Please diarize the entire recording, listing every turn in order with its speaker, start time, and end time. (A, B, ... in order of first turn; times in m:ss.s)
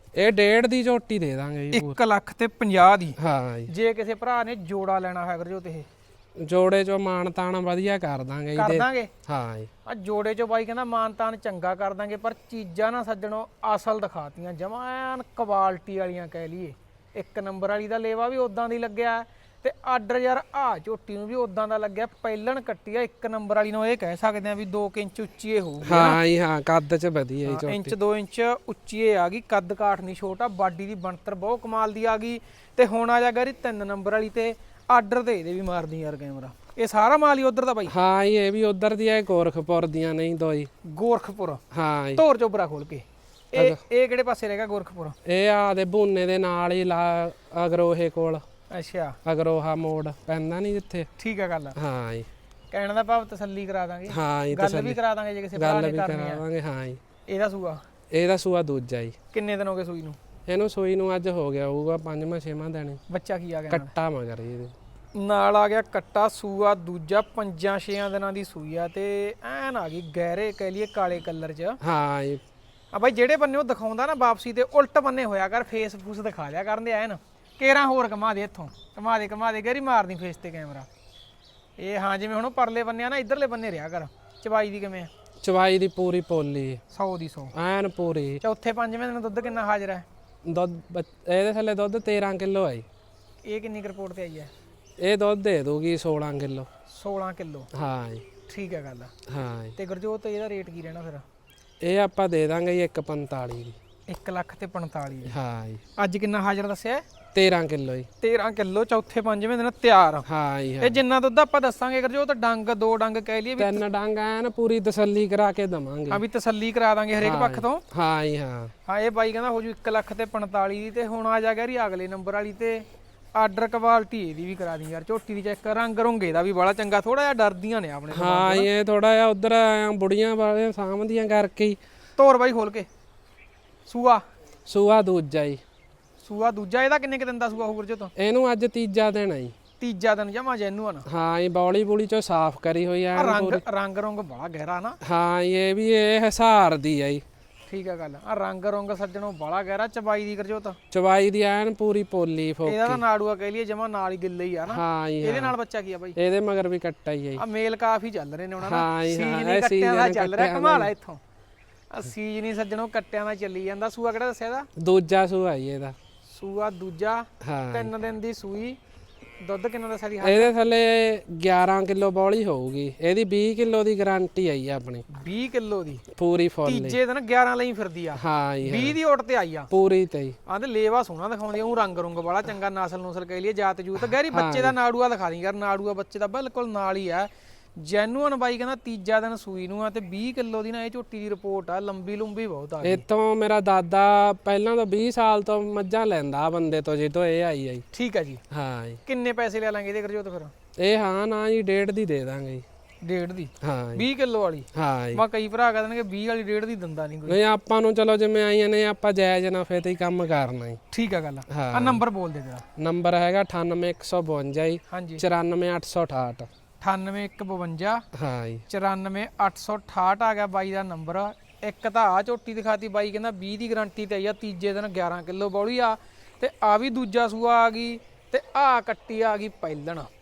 0:00.2-0:02.0 A
0:01.7-0:05.9 B
0:03.2-0:03.7 A
0:06.4-0:09.7 A
0:08.6-0:09.1 B
0:09.8-0:26.2 B
0:25.8-0:28.0 A
0:27.5-0:37.9 B
0:37.9-0:40.7 A
0:40.9-0:41.6 B
0:41.7-0:42.2 A
0:42.2-0:45.2 B
0:43.6-0:43.8 A
0:45.2-0:48.4 A
0:48.7-0:49.2 B
0:49.2-0:51.1 A
0:51.2-0:51.8 B
0:51.8-0:52.3 A
0:52.7-0:56.4 B
0:54.1-0:55.0 A
0:55.6-0:57.0 A
0:57.3-0:57.8 B
0:58.1-0:59.2 A
0:59.3-1:00.2 B
1:00.5-1:03.0 A
1:03.1-1:03.9 B
1:03.7-1:04.7 A
1:05.2-1:11.8 B
1:11.8-1:12.4 A
1:12.9-1:20.9 B
1:21.8-1:25.1 B
1:25.4-1:26.8 A
1:26.9-1:27.5 B
1:27.5-1:28.4 A
1:28.4-1:30.0 B
1:30.5-1:32.8 A
1:33.5-1:34.5 B
1:35.0-1:36.7 A
1:36.9-1:37.7 B
1:37.7-1:38.2 A
1:38.5-1:39.1 B
1:39.3-1:39.8 A
1:39.8-1:41.2 B
1:41.8-1:43.8 A
1:44.1-1:45.4 B
1:45.3-1:45.8 A
1:46.0-1:47.0 B
1:47.3-1:48.1 A
1:48.2-1:50.3 B
1:50.3-1:51.0 A
1:50.8-1:53.8 B
1:53.6-1:56.2 A
1:56.1-1:57.8 B
1:57.2-1:58.7 A
1:58.9-2:08.7 B
2:08.1-2:11.8 A
2:12.2-2:12.9 B
2:13.9-2:14.2 B
2:14.7-2:15.6 A
2:16.2-2:18.1 B
2:18.2-2:19.5 A
2:19.8-2:21.1 B
2:21.1-2:23.6 A
2:23.2-2:25.0 B
2:25.0-2:27.2 A
2:27.7-2:30.8 B
2:30.9-2:33.0 A
2:32.7-2:36.2 B
2:34.7-2:35.6 A
2:36.2-2:37.4 A
2:37.4-2:41.2 B
2:38.6-2:40.9 A
2:41.9-2:44.7 B
2:44.8-2:46.0 A
2:46.3-2:48.8 B
2:47.4-2:47.9 A
2:49.4-2:50.5 B
2:50.2-2:55.0 A
2:55.1-2:56.0 B
2:56.2-2:57.0 A
2:56.6-2:59.7 B
2:58.2-2:59.0 A
2:59.7-3:00.4 A
3:00.5-3:13.0 B
3:04.1-3:04.8 A
3:12.8-3:17.8 A
3:17.9-3:18.4 B
3:18.5-3:19.0 A
3:19.1-3:20.5 B
3:20.8-3:22.6 A
3:23.0-3:27.4 B
3:23.6-3:24.0 A
3:24.7-3:25.2 A
3:27.3-3:30.8 A
3:30.9-3:32.6 B
3:31.5-3:32.0 A
3:32.8-3:36.5 A
3:34.9-3:35.2 B
3:36.8-3:38.0 B
3:38.1-3:38.6 A
3:38.7-3:50.1 B